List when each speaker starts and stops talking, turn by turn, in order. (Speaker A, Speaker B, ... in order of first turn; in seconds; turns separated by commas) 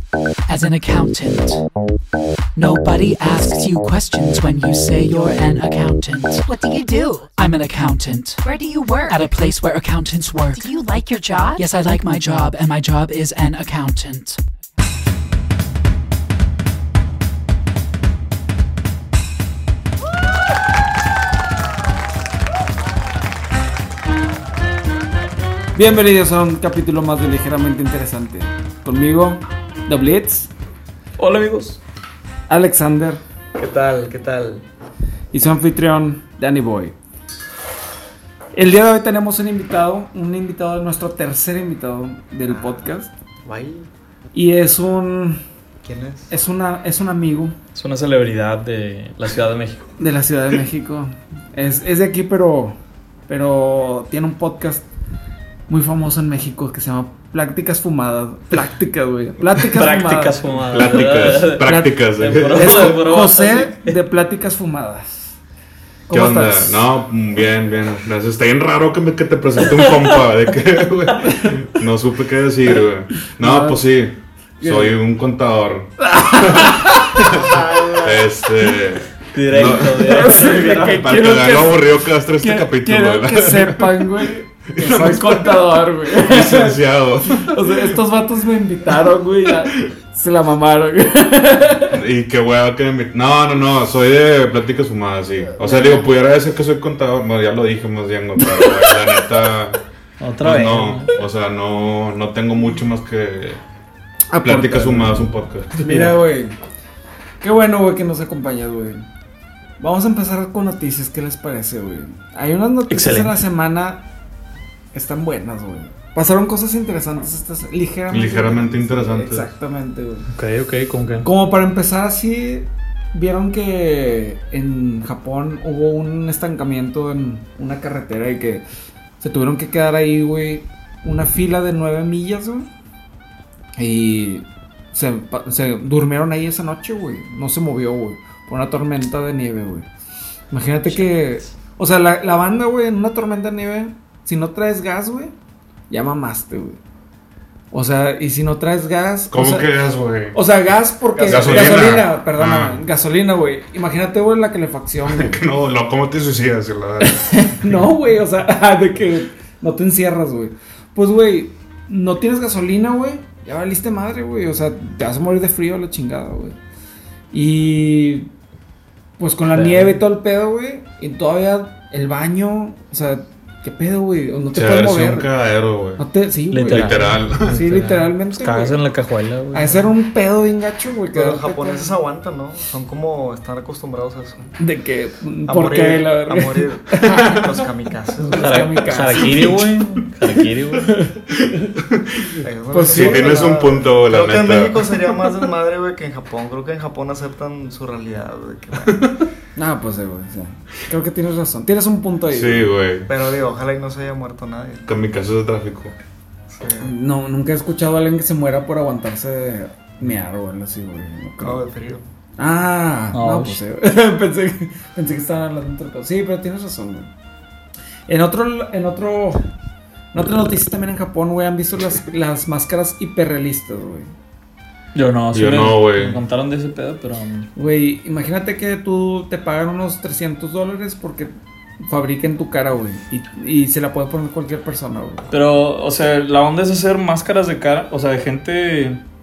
Speaker A: 0.5-1.6, Speaker A: 2.5-8.5, Speaker B: 6.5-7.1, Speaker B: 8.4-9.1, Speaker A: 9.0-14.4, Speaker B: 10.6-11.6, Speaker C: 25.7-30.5, Speaker D: 31.2-31.8, Speaker C: 32.5-33.2, Speaker E: 33.5-34.6, Speaker C: 35.3-36.9, Speaker C: 38.5-43.1, Speaker E: 43.4-43.9, Speaker C: 44.3-45.4, Speaker E: 45.8-46.3, Speaker C: 46.3-47.5, Speaker D: 47.7-49.9, Speaker C: 50.0-52.8, Speaker C: 53.3-54.8, Speaker C: 55.7-60.4, Speaker D: 59.5-63.9, Speaker F: 60.6-63.0, Speaker C: 61.6-65.3, Speaker C: 66.1-66.9, Speaker F: 66.1-87.8, Speaker C: 71.3-71.6, Speaker C: 73.3-73.8, Speaker C: 74.6-75.0, Speaker C: 76.0-77.3, Speaker E: 77.4-78.1, Speaker D: 79.3-80.8, Speaker C: 79.9-92.0, Speaker F: 91.9-99.8, Speaker C: 95.6-96.1, Speaker D: 100.2-101.2, Speaker F: 100.4-103.6, Speaker C: 104.3-106.5, Speaker F: 104.4-106.1, Speaker C: 107.4-109.0, Speaker C: 109.8-114.0, Speaker D: 112.9-113.3, Speaker C: 114.9-120.3, Speaker F: 118.1-119.4, Speaker D: 120.3-121.3, Speaker C: 121.2-128.6, Speaker C: 129.2-132.7, Speaker C: 133.8-139.9, Speaker C: 140.5-145.3, Speaker C: 145.9-146.8, Speaker C: 147.7-149.7, Speaker F: 149.3-150.3, Speaker C: 150.3-155.4, Speaker E: 151.1-152.0, Speaker F: 151.2-152.8, Speaker F: 155.1-157.8, Speaker C: 157.0-166.6, Speaker C: 167.3-168.3, Speaker C: 169.2-175.3, Speaker D: 169.5-170.0, Speaker F: 174.5-176.0, Speaker C: 176.0-178.8, Speaker D: 176.5-179.9, Speaker F: 176.6-177.6, Speaker C: 179.5-181.9, Speaker E: 181.1-184.5, Speaker C: 184.6-187.5, Speaker E: 185.4-188.7, Speaker C: 188.2-189.7, Speaker D: 188.4-191.0, Speaker F: 189.4-189.6, Speaker C: 190.8-191.1, Speaker F: 191.3-195.0, Speaker E: 192.4-199.1, Speaker C: 192.7-193.9, Speaker F: 198.9-199.2, Speaker C: 199.6-202.7, Speaker F: 202.3-203.1, Speaker E: 203.1-204.9, Speaker F: 204.9-205.9, Speaker E: 206.5-206.9, Speaker C: 206.8-211.6, Speaker E: 211.4-212.0, Speaker C: 212.4-217.1, Speaker D: 213.1-213.6, Speaker C: 218.1-219.4, Speaker C: 220.1-224.1, Speaker D: 224.9-227.5, Speaker F: 225.3-226.2, Speaker C: 227.6-231.3, Speaker C: 231.8-235.2, Speaker D: 235.3-239.0